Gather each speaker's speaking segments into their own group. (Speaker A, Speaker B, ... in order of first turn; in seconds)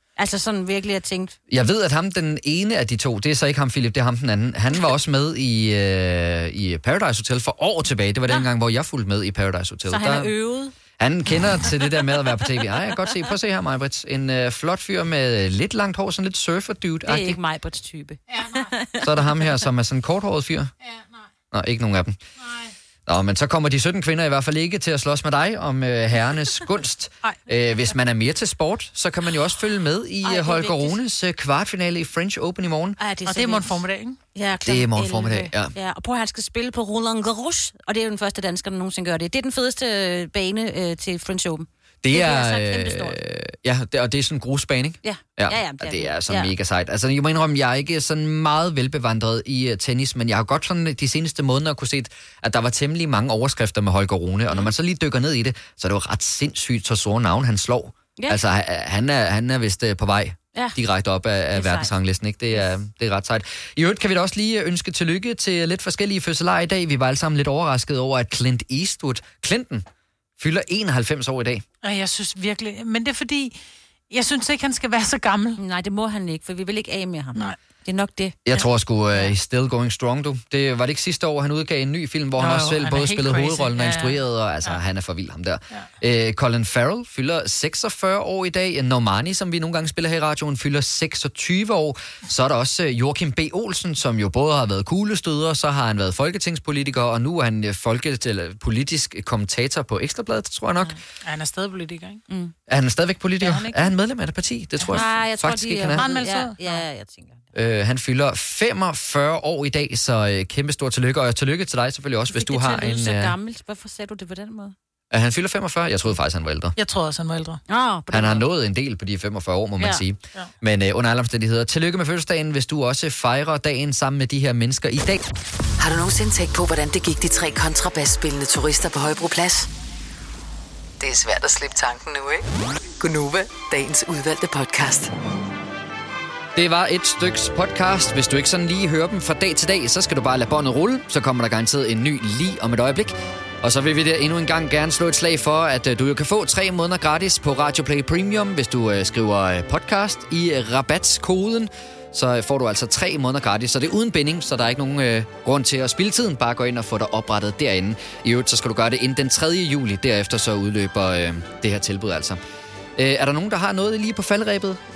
Speaker A: 0.2-1.4, 9.8-10.7, 17.1-19.4, 30.2-31.0, 33.0-33.8, 34.3-43.2, 45.0-46.5, 61.5-61.9, 75.6-79.3, 102.3-102.5, 104.9-107.5, 112.3-114.7, 117.7-118.4
Speaker B: 1.5-10.3, 11.0-17.4, 19.0-20.7, 21.5-22.2, 23.1-33.0, 34.6-35.7, 42.0-69.8, 70.4-71.6, 78.5-101.0, 102.7-106.1, 107.5-113.3, 115.1-116.7, 118.1-125.3, 136.5-162.4, 162.9-164.8
Speaker C: 18.3-18.7, 20.8-21.3, 22.4-22.7, 33.2-34.2, 71.8-73.5, 74.1-75.6, 82.4-84.8, 100.8-102.2, 103.4-103.7, 104.8-105.2, 106.0-106.8, 116.8-117.6
Speaker D: 125.8-129.7, 131.0-132.4, 133.0-135.1